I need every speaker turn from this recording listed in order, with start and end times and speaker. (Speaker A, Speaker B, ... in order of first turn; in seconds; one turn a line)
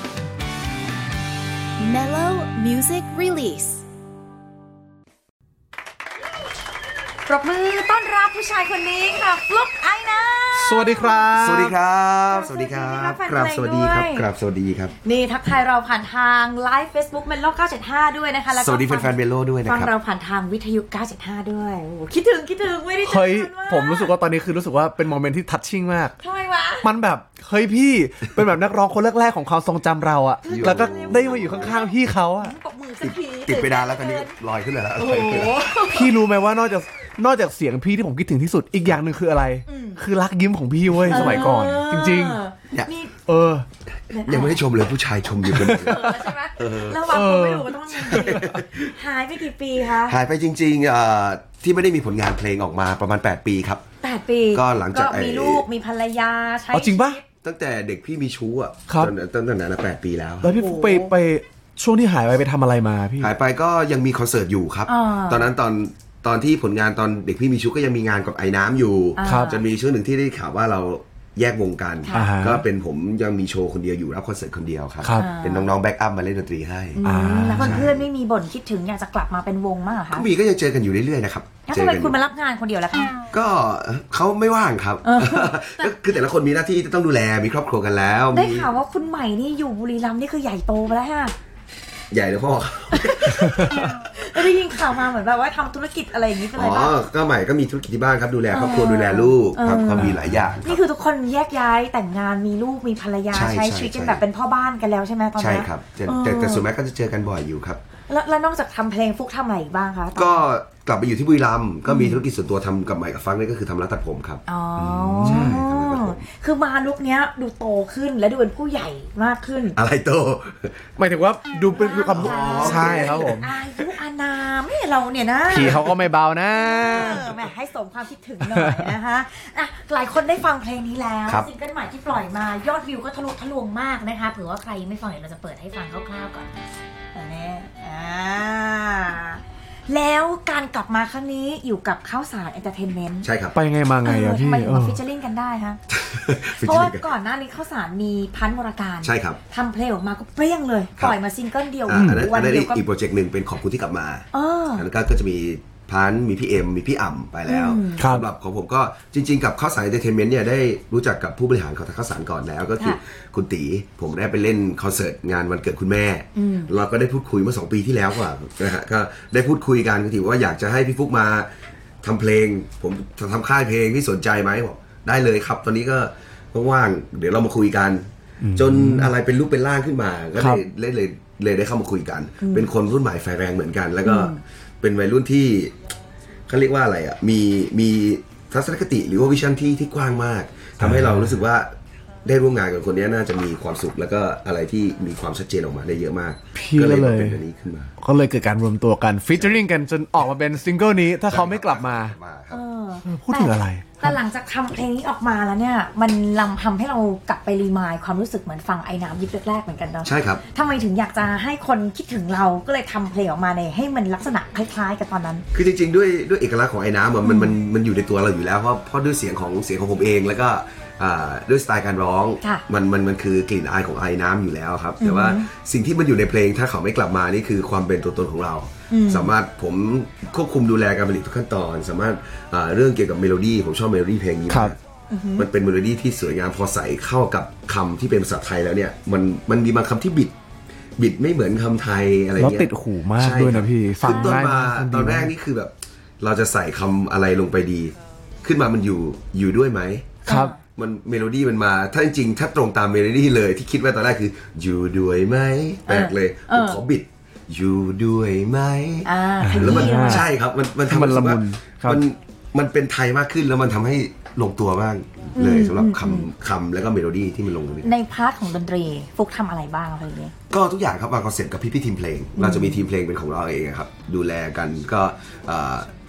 Speaker A: 1.8-3.8
Speaker B: 7.2-11.3
Speaker C: 10.5-11.7
Speaker D: 11.3-14.9
Speaker B: 12.3-14.3
Speaker B: 15.0-24.1
Speaker D: 18.5-19.9
Speaker C: 23.0-26.1
Speaker B: 26.2-26.9
Speaker C: 26.8-32.5
Speaker B: 30.4-34.3
Speaker D: 30.5-31.8
Speaker D: 33.0-35.7
Speaker B: 35.0-36.1
Speaker C: 35.9-42.4
Speaker B: 39.7-40.0
Speaker D: 41.0-41.5
Speaker B: 41.0-43.2
Speaker C: 43.3-43.6
Speaker B: 44.1-44.6
Speaker D: 44.2-47.1
Speaker C: 45.5-46.1
Speaker B: 45.8-50.2
Speaker C: 47.1-48.4
Speaker D: 48.0-49.0
Speaker D: 49.9-53.8
Speaker B: 54.0-57.2
Speaker D: 54.5-55.6
Speaker C: 56.7-57.2
Speaker D: 57.4-60.5
Speaker C: 58.9-59.1
Speaker C: 60.4-63.3
Speaker B: 60.5-61.1
Speaker D: 63.2-77.0
Speaker B: 64.9-65.5
Speaker B: 69.1-69.6
Speaker C: 69.2-69.5
Speaker B: 72.0-72.3
Speaker C: 72.1-72.6
Speaker C: 75.0-75.3
Speaker B: 75.1-75.7
Speaker B: 76.9-80.3
Speaker C: 77.0-77.9
Speaker D: 77.6-78.0
Speaker D: 80.1-82.2
Speaker B: 81.7-83.2
Speaker D: 83.3-88.7
Speaker B: 85.0-85.9
Speaker B: 88.3-91.3
Speaker D: 92.1-93.8
Speaker B: 92.9-97.0
Speaker D: 96.5-100.8
Speaker B: 98.5-106.6
Speaker C: 100.0-100.4
Speaker D: 103.3-104.2
Speaker D: 105.4-107.8
Speaker B: 108.1-110.5
Speaker D: 110.1-116.2
Speaker B: 111.9-112.2
Speaker B: 114.5-119.8
Speaker C: 115.2-115.6
Speaker D: 119.8-120.8
Speaker C: 121.0-123.5
Speaker B: 121.7-125.9
Speaker D: 122.1-123.4
Speaker C: 125.5-127.3
Speaker B: 126.5-136.5
Speaker C: 128.4-128.9
Speaker B: 137.1-143.3
Speaker D: 143.2-143.6
Speaker C: 143.5-145.0
Speaker B: 144.0-145.8
Speaker D: 145.9-147.1
Speaker B: 146.4-152.8
Speaker D: 149.0-149.4
Speaker D: 151.8-171.5
Speaker C: 151.9-152.3
Speaker B: 154.3-154.9
Speaker B: 157.5-158.1
Speaker C: 158.0-158.2
Speaker B: 166.3-166.7
Speaker D: 172.0-185.7
Speaker C: 178.4-179.1
Speaker C: 180.4-180.6
Speaker B: 182.4-182.7
Speaker B: 184.0-184.4
Speaker D: 186.5-191.7
Speaker C: 190.8-191.4
Speaker D: 192.2-197.9
Speaker C: 196.5-197.4
Speaker C: 198.0-202.2
Speaker D: 199.3-199.6
Speaker D: 201.2-202.6
Speaker B: 202.5-215.4
Speaker C: 203.1-204.2
Speaker D: 210.0-210.4
Speaker D: 215.5-234.8
Speaker B: 217.2-217.6
Speaker B: 225.0-225.4
Speaker B: 228.9-229.3
Speaker C: 234.5-234.7
Speaker B: 235.1-235.5
Speaker D: 235.3-240.3
Speaker D: 241.0-250.2
Speaker C: 242.3-245.3
Speaker B: 244.0-244.4
Speaker B: 250.2-250.6
Speaker C: 250.3-250.5
Speaker D: 250.7-267.9
Speaker B: 255.9-256.8
Speaker B: 259.0-260.3
Speaker C: 259.4-260.3
Speaker C: 260.9-262.0
Speaker B: 265.3-266.3
Speaker B: 267.8-270.3
Speaker D: 270.5-275.9
Speaker B: 272.4-272.8